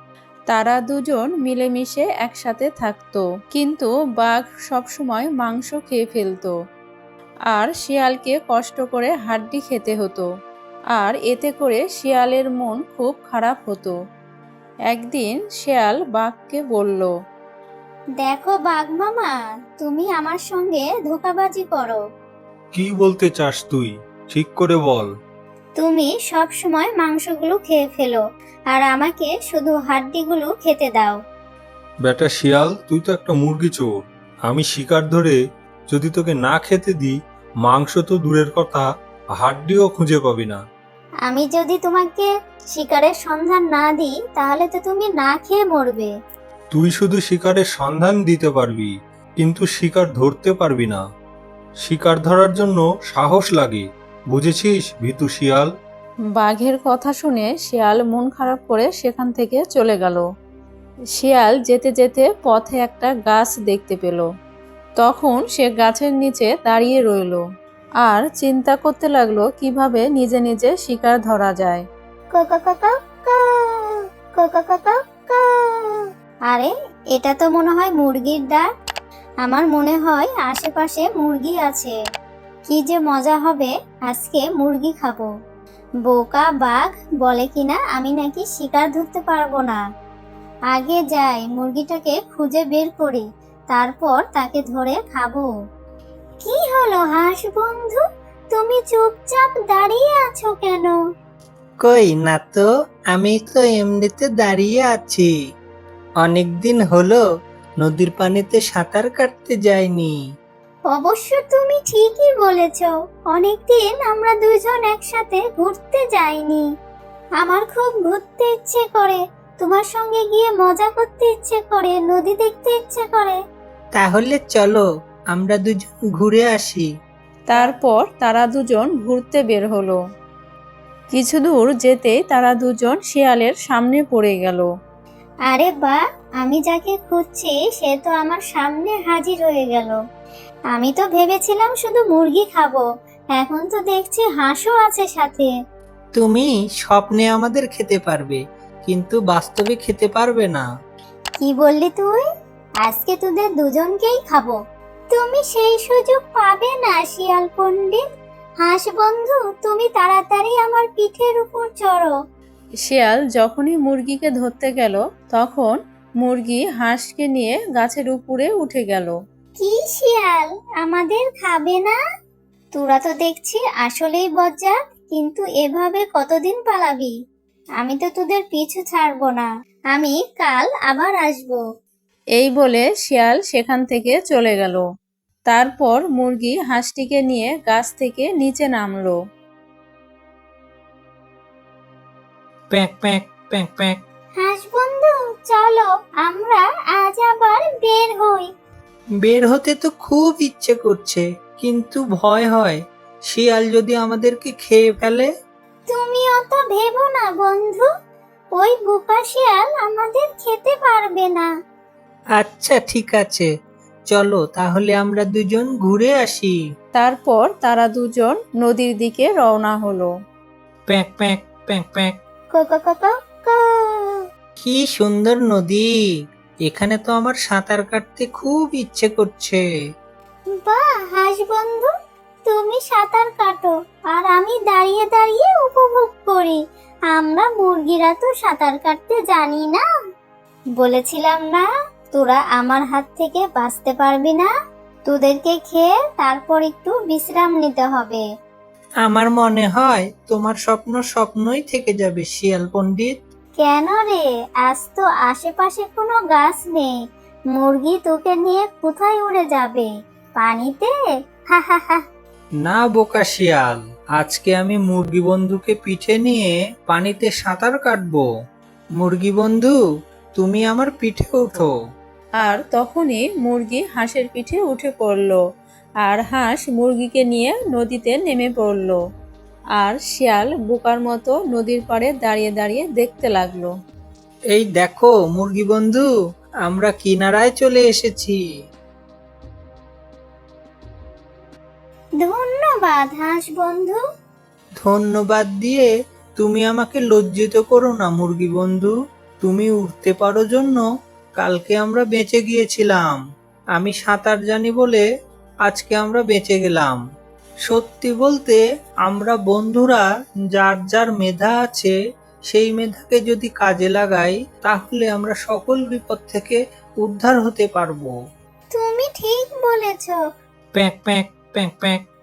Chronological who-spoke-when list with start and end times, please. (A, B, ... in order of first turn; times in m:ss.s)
0:00.5-0:06.5 A
0:07.5-0:10.3 A
0:10.9-0:13.9 A
0:14.9-0:17.1 A
0:18.2-0:22.0 B
0:22.7-0:25.1 C
0:25.8-0:31.2 B
0:32.0-0:35.4 C
0:35.9-0:38.8 C
0:39.4-0:40.6 C
0:41.2-0:46.1 B
0:46.7-0:51.0 C
0:51.8-0:55.7 C
0:56.4-1:00.2 A
1:01.1-1:04.3 A
1:05.0-1:07.4 A
1:08.0-1:11.8 A
1:12.3-1:18.6 B
1:19.4-1:21.9 B
1:22.7-1:25.3 B
1:26.0-1:29.8 B
1:30.7-1:35.5 B
1:36.4-1:41.0 B
1:41.8-1:45.3 D
1:46.2-1:47.2 D
1:47.8-1:50.2 D
1:50.9-1:56.6 B
1:57.4-2:03.4 B
2:04.0-2:06.9 D
2:07.5-2:10.0 A
2:11.1-2:14.7 A
2:15.5-2:20.0 B
2:20.7-2:25.5 B
2:26.2-2:30.6 D
2:31.4-2:32.2 B
2:32.8-2:34.6 B
2:35.1-2:38.0 B
2:38.6-2:42.1 B
2:42.8-2:49.1 A
2:49.6-2:52.0 B
2:52.7-2:57.1 B
2:57.8-3:01.6 B
3:02.4-3:04.8 A
3:05.5-3:09.2 A
3:12.7-3:14.0 D
3:14.4-3:18.5 B
3:19.2-3:22.8 D
3:23.3-3:25.3 D
3:25.9-3:27.9 B
3:28.6-3:31.5 B
3:32.4-3:33.5 D
3:34.1-3:36.6 D
3:37.0-3:40.1 A
3:40.9-3:42.1 D
3:42.5-3:44.2 B
3:44.6-3:45.8 D
3:46.7-3:49.6 D
3:50.6-3:51.9 B
3:52.4-3:59.8 B
4:00.8-4:04.5 B
4:05.0-4:08.2 B
4:09.0-4:13.1 D
4:13.6-4:16.9 B
4:17.5-4:20.9 B
4:21.5-4:22.0 B
4:22.6-4:28.2 D
4:29.0-4:29.8 D
4:30.4-4:31.7 D
4:32.4-4:35.4 A
4:36.0-4:39.0 A
4:39.8-4:43.7 A
4:44.5-4:46.1 D
4:46.7-4:48.4 D
4:52.2-4:54.0 B
4:54.8-5:00.8 D
5:01.4-5:03.2 D
5:03.8-5:05.0 D
5:05.6-5:07.0 D
5:07.7-5:11.9 D
5:12.5-5:18.1 D
5:18.7-5:20.2 B
5:20.8-5:22.0 D